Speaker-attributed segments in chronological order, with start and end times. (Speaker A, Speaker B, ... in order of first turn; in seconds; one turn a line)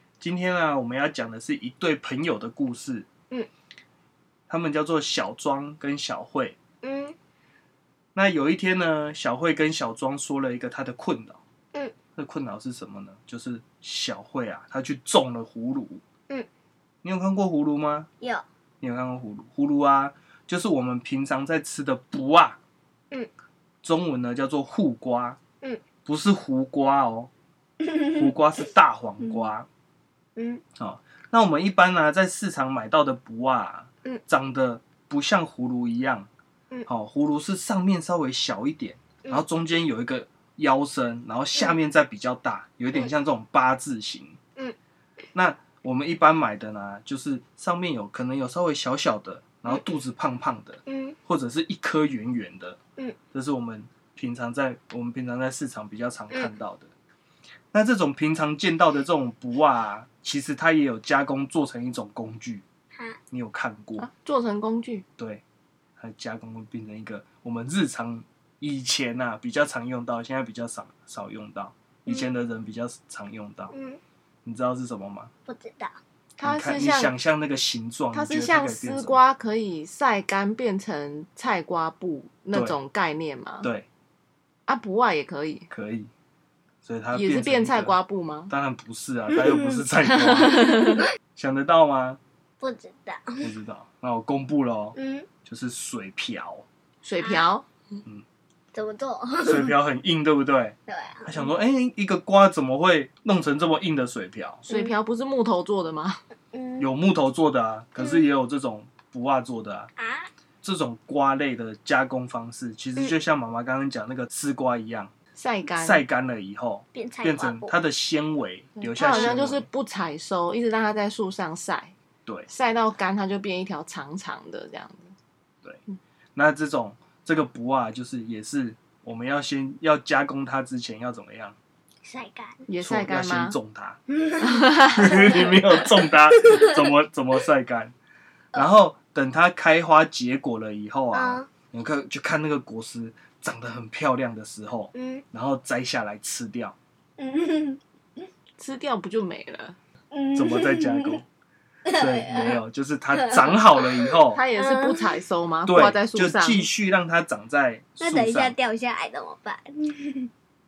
Speaker A: 0.2-3.1
Speaker A: 4.5-6.6
Speaker B: 6.8-7.1
Speaker A: 8.1-11.4
Speaker A: 12.2-16.0
Speaker A: 17.0-18.1
Speaker A: 18.8-22.6
Speaker A: 23.8-25.4
Speaker A: 26.1-27.3
Speaker B: 27.8-28.3
Speaker A: 28.1-29.7
Speaker B: 29.2-29.5
Speaker B: 30.4-30.6
Speaker A: 30.8-36.3
Speaker A: 36.9-44.4
Speaker A: 45.3-52.8
Speaker B: 50.9-51.1
Speaker A: 53.3-56.9
Speaker A: 57.7-62.6
Speaker A: 63.3-64.1
Speaker C: 64.0-65.0
Speaker A: 65.2-65.4
Speaker A: 66.0-73.7
Speaker B: 73.7-74.0
Speaker A: 74.4-75.3
Speaker B: 75.5-76.0
Speaker C: 76.4-77.1
Speaker A: 76.4-79.2
Speaker C: 78.1-83.7
Speaker C: 84.7-85.7
Speaker A: 85.7-86.1
Speaker A: 86.8-88.0
Speaker C: 87.1-88.5
Speaker A: 88.5-90.8
Speaker B: 89.5-89.8
Speaker C: 90.1-91.0
Speaker A: 91.3-92.2
Speaker B: 92.6-93.3
Speaker A: 93.4-96.7
Speaker B: 94.9-95.3
Speaker C: 97.0-97.7
Speaker B: 97.2-97.5
Speaker B: 98.7-99.8
Speaker A: 99.4-104.6
Speaker B: 100.9-101.5
Speaker C: 104.7-106.2
Speaker B: 104.7-105.0
Speaker B: 106.5-106.9
Speaker A: 106.8-109.9
Speaker B: 108.0-108.3
Speaker B: 110.0-110.3
Speaker A: 110.6-115.1
Speaker C: 115.3-116.0
Speaker A: 115.7-119.7
Speaker B: 116.9-117.8
Speaker C: 118.8-121.9
Speaker B: 119.0-119.4
Speaker C: 122.5-125.1
Speaker A: 126.3-131.6
Speaker B: 132.0-132.6
Speaker C: 132.7-133.6
Speaker A: 132.8-134.0
Speaker B: 134.1-136.8
Speaker C: 134.5-135.1
Speaker A: 134.9-137.9
Speaker A: 138.5-146.8
Speaker B: 141.1-141.5
Speaker B: 144.9-145.2
Speaker B: 147.2-147.8
Speaker C: 148.6-149.8
Speaker B: 150.1-151.2
Speaker A: 150.3-151.2
Speaker B: 151.9-152.6
Speaker A: 151.9-154.4
Speaker B: 153.1-155.2
Speaker C: 154.3-156.7
Speaker A: 155.7-158.5
Speaker B: 158.0-160.3